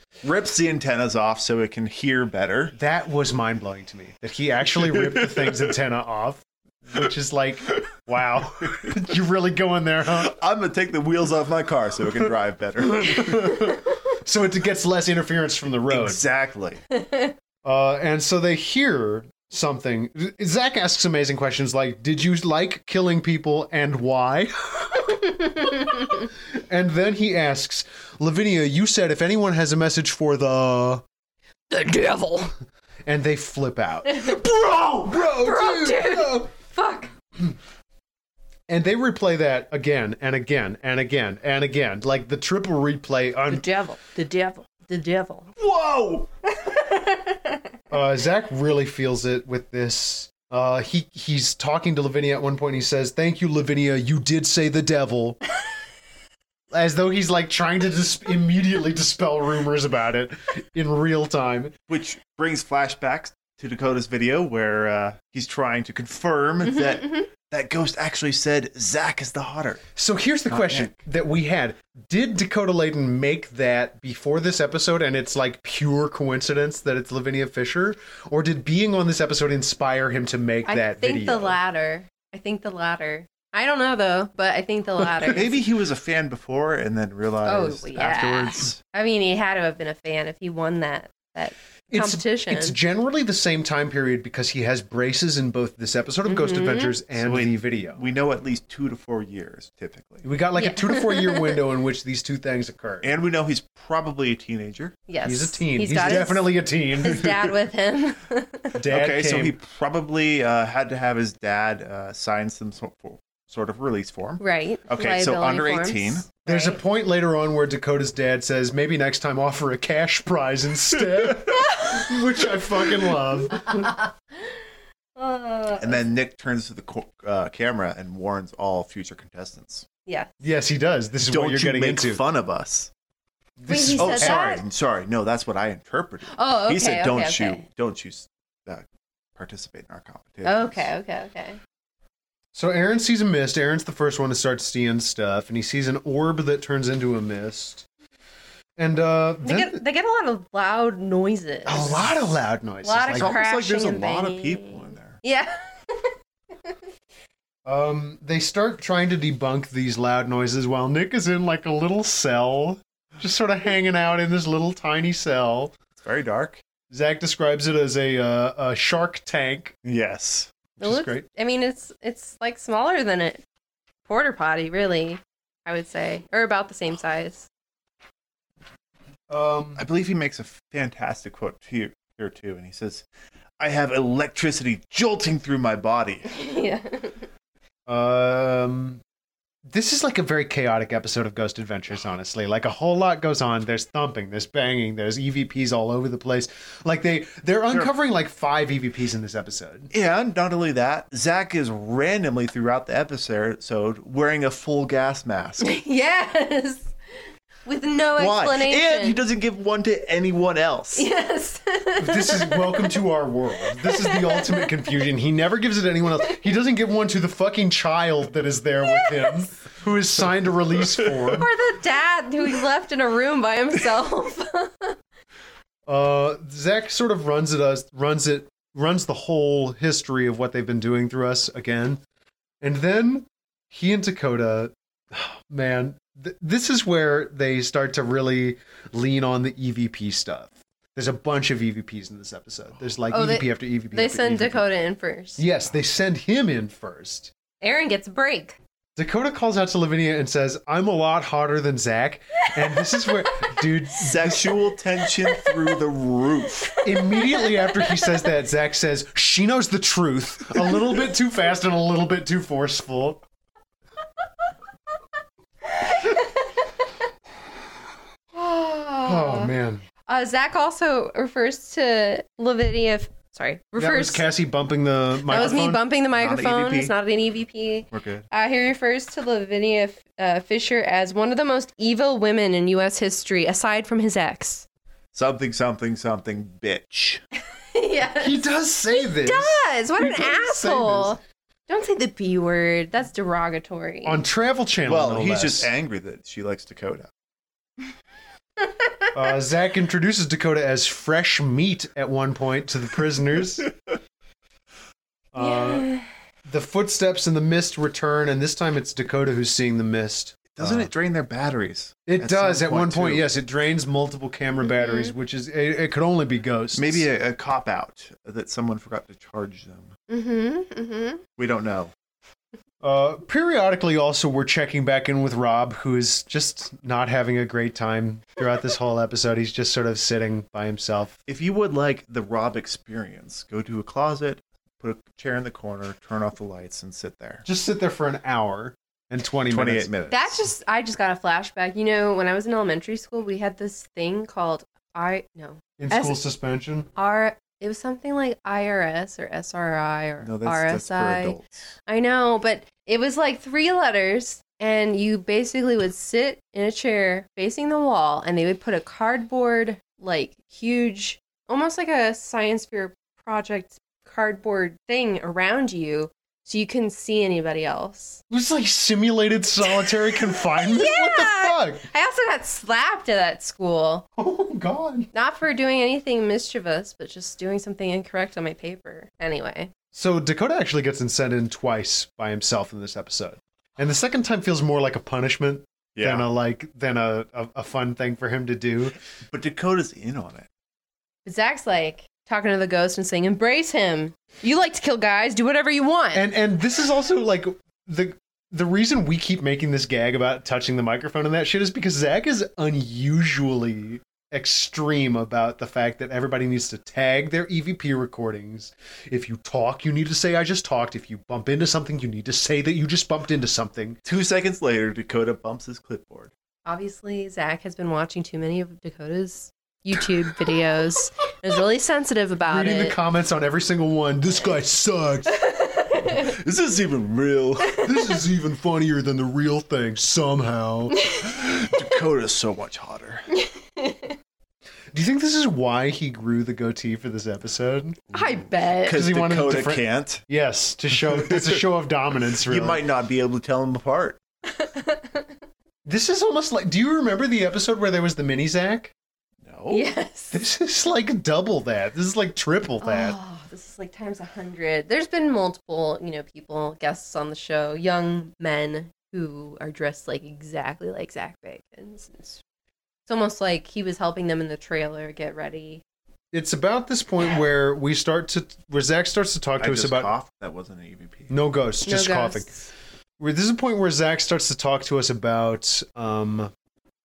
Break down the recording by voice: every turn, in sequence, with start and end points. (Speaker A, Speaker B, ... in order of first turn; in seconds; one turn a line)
Speaker A: 0.2-2.8
Speaker B: 2.8-10.3
Speaker A: 4.8-5.6
Speaker A: 10.1-13.6
Speaker B: 12.8-16.2
Speaker A: 15.9-16.8
Speaker C: 16.9-17.3
Speaker B: 17.6-31.0
Speaker C: 31.7-32.5
Speaker B: 33.1-36.5
Speaker C: 34.1-37.1
Speaker B: 38.7-43.7
Speaker C: 43.5-45.5
Speaker A: 45.6-46.3
Speaker C: 46.6-47.6
Speaker B: 47.9-55.4
Speaker B: 56.7-61.7
Speaker A: 61.9-69.8
Speaker C: 66.8-67.2
Speaker B: 70.0-81.6
Speaker A: 70.5-70.9
Speaker C: 80.7-85.6
Speaker A: 85.3-88.8
Speaker C: 87.5-92.8
Speaker B: 91.9-98.0
Speaker C: 96.3-97.0
Speaker A: 97.2-100.2
Speaker B: 100.2-103.2
Speaker C: 100.6-101.6
Speaker A: 103.0-105.0
Speaker C: 105.1-108.8
Speaker B: 105.2-107.4
Speaker B: 108.8-109.6
Speaker A: 108.9-116.3
Speaker C: 114.4-116.8
Speaker B: 116.5-123.9
Speaker C: 123.6-124.1
Speaker C: 125.2-126.1
Speaker A: 125.8-129.9
Speaker B: 130.4-132.2
Speaker A: 131.3-132.9
Speaker B: 133.6-134.4
Speaker C: 133.7-134.7
Speaker A: 134.0-138.8
Speaker C: 136.3-137.6
Speaker A: 139.4-140.9
Speaker C: 140.4-141.6
Speaker B: 142.5-147.8
Speaker B: 148.8-149.8
Speaker C: 149.4-152.2
Speaker B: 151.7-153.4
Speaker C: 152.8-156.1
Speaker A: 153.1-155.2
Speaker B: 157.7-165.7
Speaker A: 165.9-166.6
Speaker B: 166.9-169.8
Speaker A: 169.8-170.5
Speaker B: 170.8-171.2
Speaker C: 170.8-173.4
Speaker C: 174.1-177.5
Speaker B: 179.3-179.8
Speaker A: 179.8-183.1
Speaker A: 183.6-186.3
Speaker C: 186.3-187.3
Speaker B: 187.9-189.0
Speaker B: 189.7-199.9
Speaker A: 199.9-205.7
Speaker C: 205.6-206.9
Speaker C: 207.7-209.2
Speaker A: 208.2-211.1
Speaker C: 210.9-213.0
Speaker B: 212.0-221.5
Speaker C: 213.7-215.0
Speaker C: 218.9-219.4
Speaker C: 221.3-225.0
Speaker B: 225.9-232.0
Speaker B: 232.6-244.6
Speaker C: 243.1-245.4
Speaker B: 245.4-247.3
Speaker C: 247.6-248.6
Speaker B: 249.0-254.5
Speaker A: 254.0-256.8
Speaker C: 255.2-255.7
Speaker C: 256.8-258.3
Speaker B: 256.8-263.2
Speaker C: 265.7-266.7
Speaker C: 268.3-269.5
Speaker B: 269.0-269.8
Speaker C: 270.1-274.2
Speaker B: 273.8-275.8
Speaker C: 275.3-284.6
Speaker A: 275.3-276.9
Speaker A: 277.9-278.3
Speaker A: 285.1-287.2
Speaker C: 287.7-288.4
Speaker B: 288.2-291.2
Speaker C: 289.0-294.2
Speaker B: 294.1-295.7
Speaker A: 294.9-297.1
Speaker B: 299.1-303.7
Speaker B: 305.3-305.9
Speaker C: 305.4-306.1
Speaker B: 306.5-310.9
Speaker A: 310.6-313.3
Speaker B: 312.1-317.1
Speaker C: 314.7-315.1
Speaker A: 316.8-319.9
Speaker C: 320.1-321.2
Speaker A: 321.4-321.9
Speaker B: 322.8-331.2
Speaker A: 331.3-337.4
Speaker B: 337.4-339.9
Speaker A: 339.5-340.3
Speaker C: 340.1-346.2
Speaker B: 345.8-346.9
Speaker C: 347.0-368.2
Speaker A: 350.2-351.7
Speaker B: 368.3-371.8
Speaker C: 369.6-374.1
Speaker B: 374.2-375.1
Speaker C: 375.1-379.7
Speaker B: 379.9-389.0
Speaker A: 385.9-386.3
Speaker A: 389.3-390.5
Speaker C: 391.2-396.2
Speaker B: 396.1-414.0
Speaker A: 414.1-416.3
Speaker C: 416.7-423.0
Speaker B: 422.5-425.4
Speaker C: 425.3-426.4
Speaker A: 426.1-427.8
Speaker C: 427.6-428.1
Speaker B: 427.8-431.1
Speaker C: 431.0-431.3
Speaker A: 431.2-433.3
Speaker C: 433.4-434.2
Speaker B: 434.9-438.1
Speaker C: 438.1-439.0
Speaker A: 438.8-440.2
Speaker B: 438.9-442.8
Speaker A: 441.0-441.6
Speaker A: 442.4-444.2
Speaker C: 444.5-445.3
Speaker B: 445.9-448.9
Speaker A: 449.4-449.9
Speaker C: 449.7-450.4
Speaker B: 450.3-453.2
Speaker C: 452.8-462.4
Speaker C: 463.1-465.8
Speaker B: 466.3-470.1
Speaker A: 469.6-471.3
Speaker B: 471.3-472.5
Speaker C: 471.9-472.7
Speaker B: 473.2-476.5